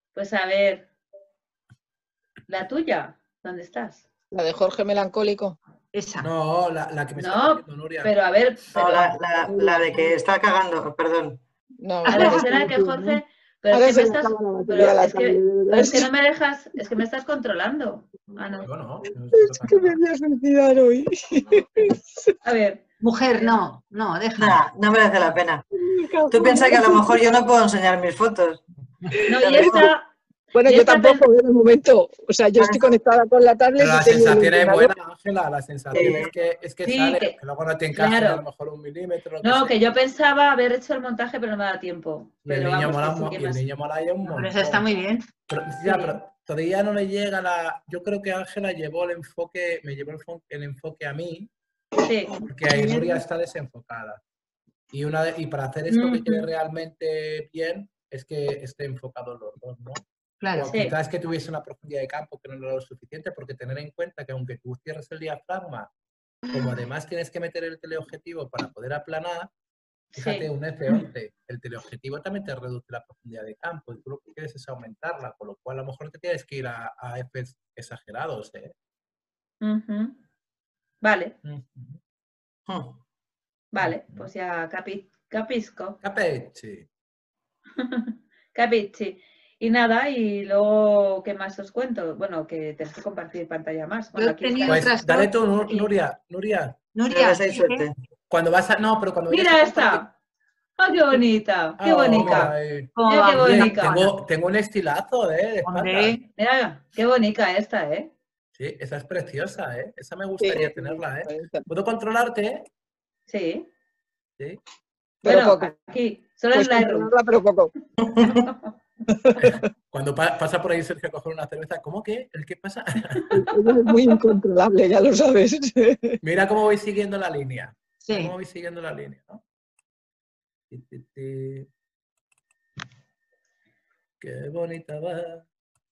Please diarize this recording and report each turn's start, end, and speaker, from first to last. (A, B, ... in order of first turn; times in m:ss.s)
0:00.1-0:00.9 A
0:02.5-0:04.0 A
0:04.3-0:05.6 B
0:05.9-0:06.3 C
0:06.2-0:08.1 D
0:07.2-0:09.1 A
0:08.7-0:11.4 E
0:09.4-0:10.1 B
0:11.8-0:16.1 B
0:12.1-0:18.7 A
0:12.1-0:12.5 C
0:18.6-0:20.0 D
0:19.3-0:22.3 B
0:22.4-0:22.8 A
0:23.0-0:24.6 C
0:24.4-0:25.6 E
0:25.7-0:27.3 B
0:26.3-0:28.6 E
0:29.1-0:29.9 B
0:29.3-0:30.1 A
0:29.3-0:29.9 E
0:30.5-0:34.9 B
0:30.6-0:31.2 A
0:32.6-0:32.9 E
0:33.8-0:39.8 D
0:35.9-0:36.3 E
0:36.8-0:37.4 A
0:37.9-0:38.4 A
0:39.4-0:43.6 A
0:42.4-0:44.8 D
0:44.2-0:45.3 C
0:45.5-0:51.5 D
0:52.0-0:52.3 A
0:52.5-0:54.2 D
0:52.7-0:53.2 B
0:54.9-1:00.0 D
0:55.9-0:56.5 A
1:00.4-1:00.7 C
1:00.5-1:05.9 D
1:06.5-1:09.5 D
1:10.1-1:10.5 A
1:10.2-1:18.7 D
1:19.6-1:20.2 A
1:21.0-1:21.4 A
1:21.4-1:22.0 D
1:22.7-1:23.0 E
1:23.7-1:26.0 A
1:23.8-1:24.3 D
1:26.0-1:26.9 D
1:27.8-1:34.9 A
1:34.1-1:35.3 C
1:34.6-1:36.8 D
1:35.6-1:35.9 A
1:36.9-1:37.9 C
1:37.1-1:37.9 E
1:38.3-1:40.0 D
1:39.3-1:40.1 A
1:40.8-1:42.5 A
1:41.8-1:46.2 D
1:43.0-1:44.1 C
1:43.1-1:44.1 A
1:45.6-1:46.2 C
1:46.4-1:48.1 A
1:48.6-1:52.7 D
1:50.4-1:51.6 B
1:53.3-1:53.7 A
1:55.2-1:55.7 B
1:55.2-1:57.1 A
1:56.5-1:57.7 B
1:58.0-1:58.5 E
1:59.2-1:59.7 B
1:59.4-2:03.4 D
2:03.3-2:06.2 B
2:06.2-2:09.4 D
2:08.0-2:08.3 C
2:10.7-2:11.7 D
2:14.2-2:15.4 D